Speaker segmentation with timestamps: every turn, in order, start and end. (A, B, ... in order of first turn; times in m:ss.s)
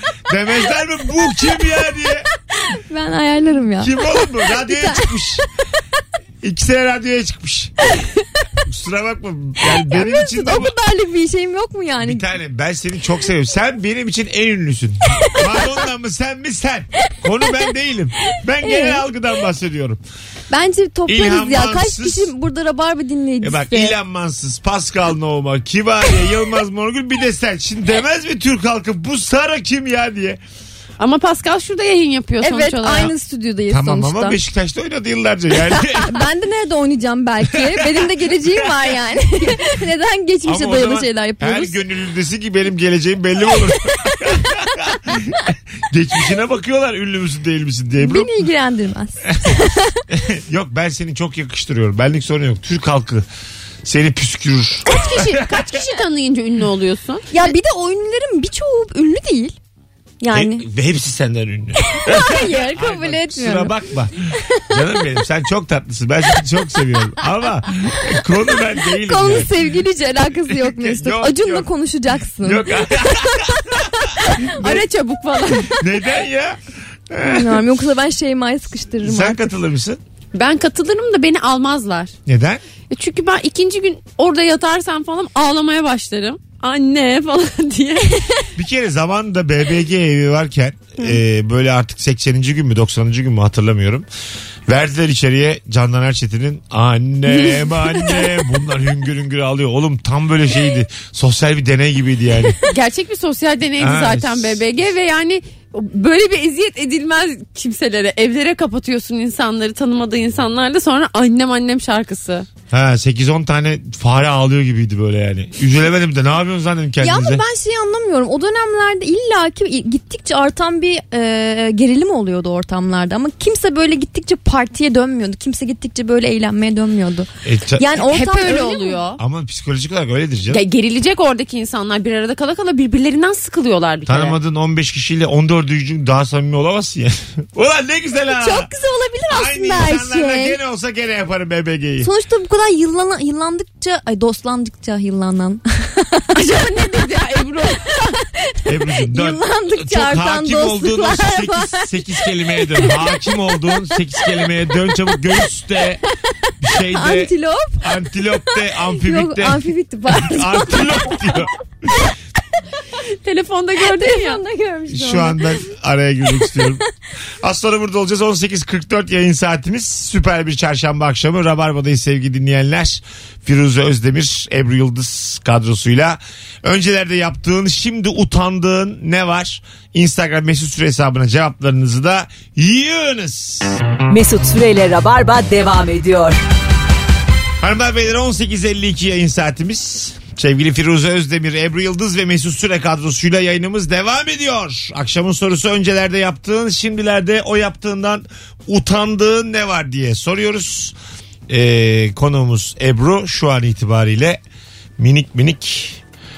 0:00.3-0:02.3 A
0:02.6-0:05.1 B
0:03.8-0:05.4 A
0:06.4-0:07.7 A
0:08.7-0:10.7 A
0:09.7-0:12.2 B
0:12.0-0:20.0 A
0:18.6-0:19.0 B
0:20.5-0:23.9 B
0:21.1-0:22.3 A
0:23.4-0:30.4 A
0:31.0-0:33.1 C
0:32.4-0:34.4 B
0:33.7-0:36.2 A
0:36.0-0:41.8 B
0:37.5-0:38.7 A
0:40.4-0:48.3 A
0:48.0-0:50.0 B
0:50.1-0:53.2 A
0:53.8-0:55.7 A
0:54.9-0:57.5 C
0:57.3-0:59.6 B
1:00.2-1:00.7 B
1:00.3-1:04.1 A
1:01.8-1:03.7 B
1:04.7-1:09.6 A
1:09.0-1:12.7 B
1:10.5-1:11.7 A
1:12.4-1:14.1 A
1:14.4-1:15.8 C
1:15.7-1:17.6 A
1:17.2-1:19.5 B
1:19.0-1:20.0 A
1:20.3-1:22.1 C
1:22.2-1:22.6 A
1:22.9-1:28.5 C
1:28.6-1:34.1 A
1:34.7-1:42.6 A
1:37.3-1:38.2 C
1:42.6-1:52.5 C
1:43.8-1:44.6 A
1:52.7-1:57.4 A
1:57.0-2:09.0 B
2:07.4-2:08.0 A
2:08.0-2:09.2 C
2:09.2-2:10.6 A
2:10.5-2:14.4 C
2:14.1-2:18.7 A
2:18.3-2:20.6 B
2:19.3-2:22.1 A
2:22.0-2:26.3 B
2:26.3-2:28.1 C
2:28.6-2:36.0 A
2:29.0-2:31.9 B
2:32.5-2:32.9 B
2:36.6-2:41.9 A
2:36.9-2:37.9 B
2:38.4-2:40.8 B
2:43.2-2:44.4 C
2:43.8-2:45.4 B
2:44.9-2:46.8 A
2:47.4-3:03.8 A
3:04.1-3:06.4 D
3:07.6-3:20.9 A
3:21.5-3:24.4 A
3:25.0-3:26.0 A